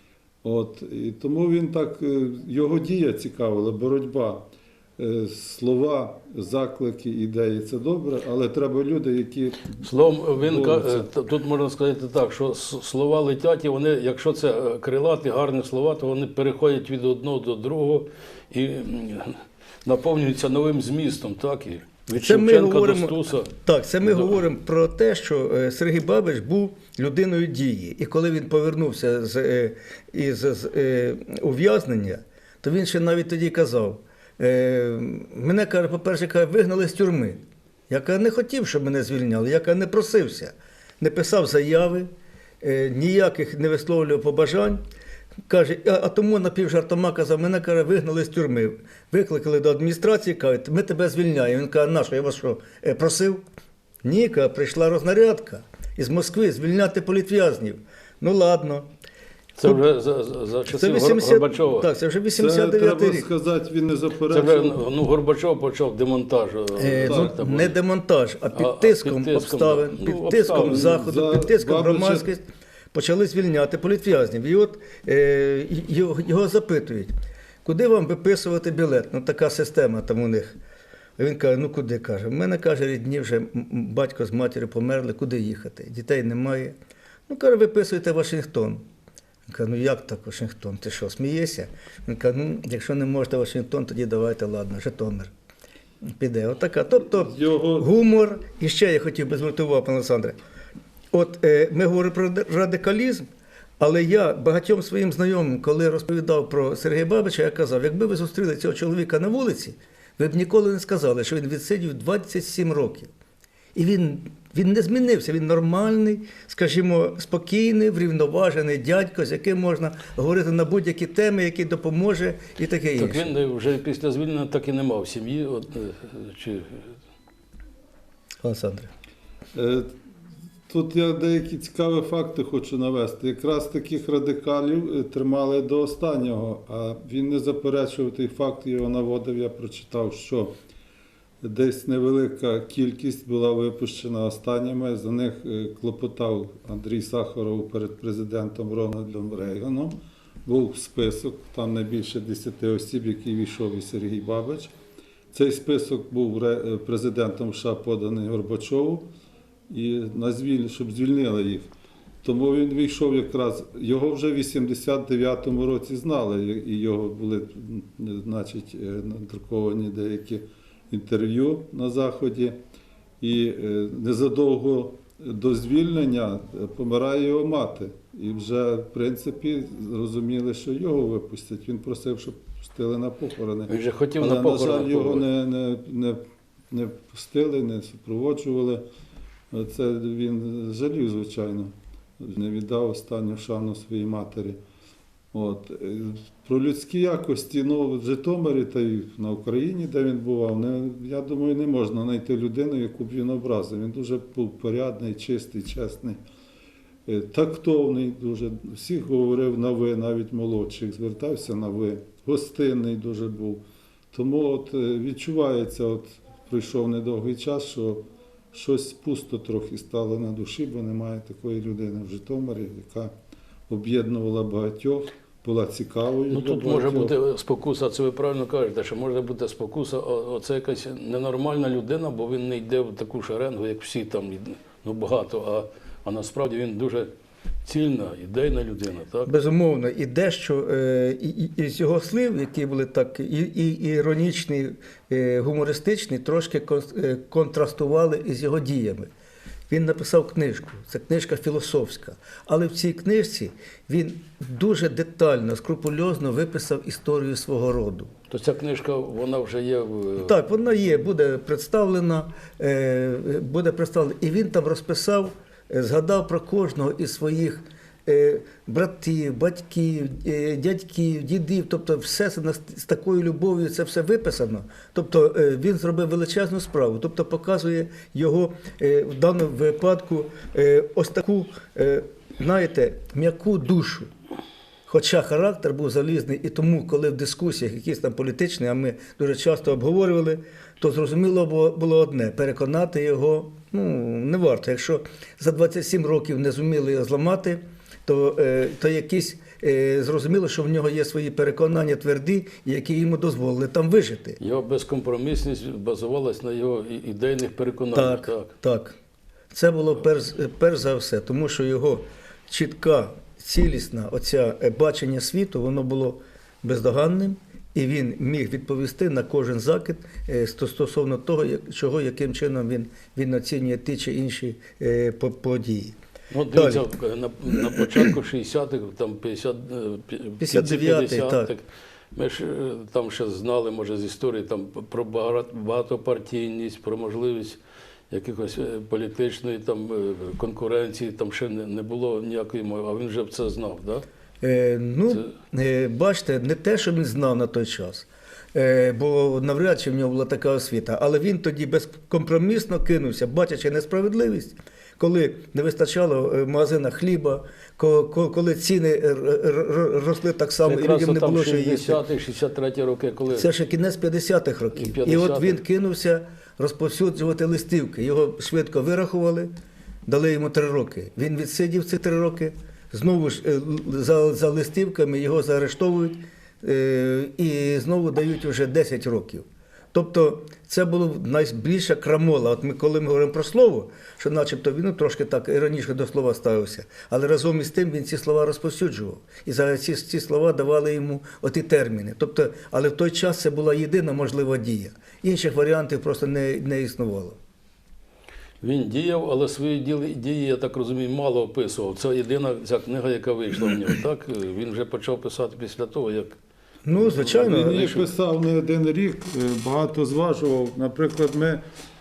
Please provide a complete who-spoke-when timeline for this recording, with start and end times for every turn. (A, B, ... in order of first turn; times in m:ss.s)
0:00.4-0:09.8 A
0:09.8-0:24.4 B
0:10.4-0:11.1 A
0:22.2-0:42.1 C
0:42.6-0:44.8 C
0:45.5-0:53.4 C
0:54.0-0:58.9 C
0:59.6-1:01.9 B
1:00.7-1:03.3 C
1:02.4-1:04.8 A
1:04.3-1:07.8 B
1:06.8-1:17.1 C
1:07.1-1:07.3 A
1:08.5-1:11.1 B
1:10.6-1:12.3 A
1:17.6-1:20.6 C
1:21.2-1:26.8 C
1:27.3-1:28.8 C
1:29.5-1:35.3 C
1:36.1-1:40.4 C
1:37.2-1:37.9 A
1:41.1-1:43.3 C
1:43.8-1:53.1 C
1:53.8-2:03.3 C
2:03.0-2:06.9 B
2:08.4-2:08.9 C
2:09.5-2:09.9 A
2:10.7-2:20.6 A
2:21.4-2:34.7 A
2:35.3-2:39.1 A
2:39.7-2:41.7 A
2:42.2-2:52.6 A
2:53.2-3:08.8 A
3:03.7-3:05.3 B
3:09.5-3:14.6 A
3:15.3-3:26.2 A
3:27.1-3:43.1 A
3:43.7-3:47.1 A
3:46.3-3:57.1 B
3:57.6-3:59.3 B
3:59.3-4:09.1 C
4:09.7-4:18.1 C
4:18.3-4:20.3 B
4:20.2-4:44.1 C
4:44.9-5:04.4 C
5:04.4-5:08.5 B
5:07.9-5:09.0 C
5:09.5-5:26.0 C
5:26.3-5:37.6 B
5:26.5-5:26.8 C
5:27.8-5:28.0 C
5:30.4-5:31.5 C
5:38.1-5:44.0 B
5:44.4-6:02.0 C
6:00.6-6:03.5 B
6:03.3-6:09.5 C
6:04.8-6:05.6 B
6:10.1-6:37.4 C
6:38.6-6:46.4 B
6:46.8-6:48.0 C
6:46.9-6:48.1 B
6:47.4-6:51.6 A